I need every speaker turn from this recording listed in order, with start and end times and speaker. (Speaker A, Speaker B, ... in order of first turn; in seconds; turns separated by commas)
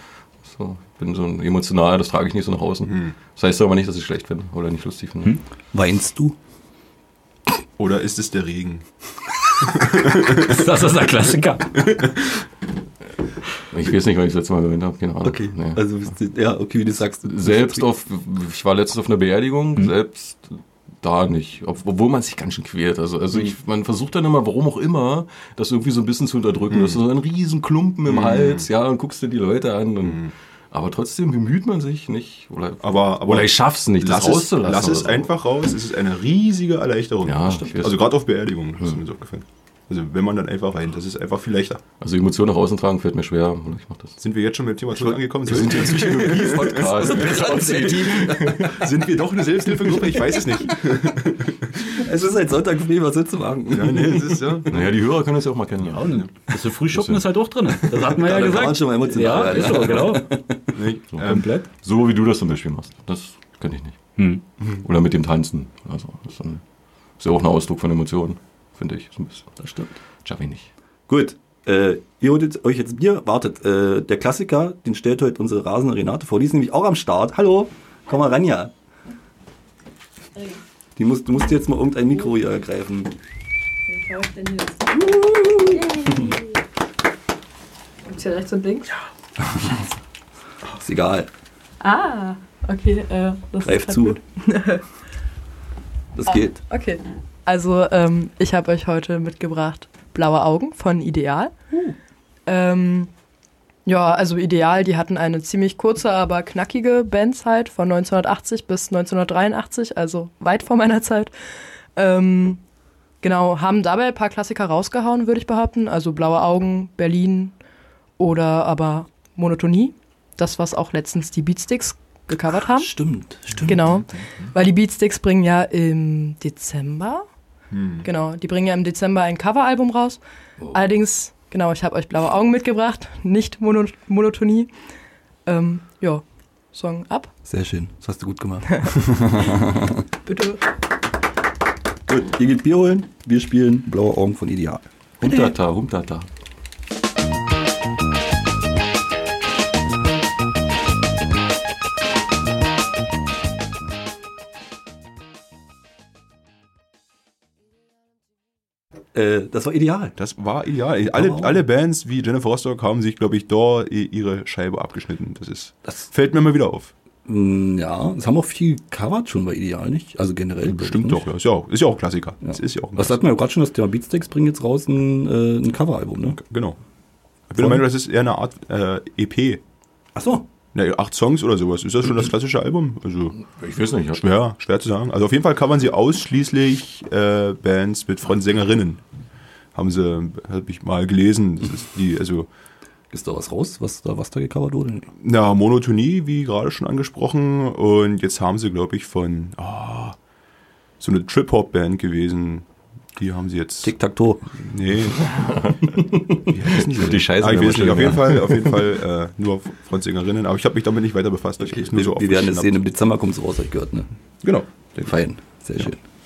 Speaker A: 0.4-5.4, Speaker B: 2.9-3.1, Speaker C: 5.7-6.3, Speaker B: 7.8-8.8, Speaker B: 9.6-10.7, Speaker D: 10.3-11.9, Speaker B: 11.7-12.4, Speaker A: 13.7-15.9, Speaker C: 15.2-17.8, Speaker A: 17.2-35.3, Speaker B: 26.7-27.0, Speaker B: 28.1-28.7, Speaker B: 32.8-41.8, Speaker A: 37.2-38.0, Speaker C: 37.5-37.7, Speaker A: 42.0-44.2, Speaker B: 44.2-47.2, Speaker A: 44.9-48.8, Speaker C: 47.0-48.8, Speaker B: 48.6-52.0, Speaker C: 49.7-50.7, Speaker C: 51.8-54.6, Speaker B: 53.7-54.9, Speaker A: 54.7-56.0, Speaker D: 55.9-60.4, Speaker B: 56.0-56.3, Speaker A: 56.9-57.2, Speaker C: 57.9-60.8, Speaker B: 60.7-61.5, Speaker A: 61.1-64.0, Speaker D: 61.2-61.6, Speaker D: 64.2-64.4, Speaker A: 64.7-66.6, Speaker A: 67.2-69.6, Speaker C: 69.6-70.0, Speaker A: 70.2-70.7, Speaker C: 71.1-78.7, Speaker C: 81.0-83.1, Speaker E: 83.9-86.6, Speaker C: 85.2-85.8, Speaker E: 88.0-89.1, Speaker C: 89.4-89.9, Speaker C: 90.8-91.3, Speaker E: 91.8-94.8, Speaker C: 93.6-94.2, Speaker C: 96.2-96.6, Speaker E: 96.3-101.5, Speaker E: 102.5-103.1, Speaker E: 103.8-111.3, Speaker E: 111.9-112.6, Speaker E: 113.2-117.5, Speaker E: 118.2-123.0, Speaker C: 122.7-123.8, Speaker E: 123.6-127.2, Speaker B: 127.7-128.1, Speaker E: 128.0-134.7, Speaker E: 135.4-137.3, Speaker C: 137.4-140.0, Speaker E: 140.2-140.6, Speaker C: 142.1-145.5, Speaker A: 145.2-146.3, Speaker C: 159.1-160.2, Speaker B: 160.2-166.9, Speaker C: 161.1-161.6, Speaker C: 167.2-171.2, Speaker B: 170.6-173.2, Speaker C: 172.5-176.4, Speaker B: 176.4-176.8, Speaker B: 177.5-179.6, Speaker C: 180.1-180.4, Speaker B: 180.7-183.3, Speaker A: 183.4-184.2, Speaker B: 184.1-189.0, Speaker B: 189.7-192.5, Speaker C: 193.1-195.1, Speaker B: 195.2-200.2, Speaker B: 201.0-203.9, Speaker C: 203.8-204.5, Speaker B: 204.6-205.3, Speaker A: 205.3-205.9, Speaker B: 206.4-212.8, Speaker A: 206.7-208.7, Speaker C: 211.6-214.1, Speaker B: 214.4-215.1, Speaker C: 215.0-216.0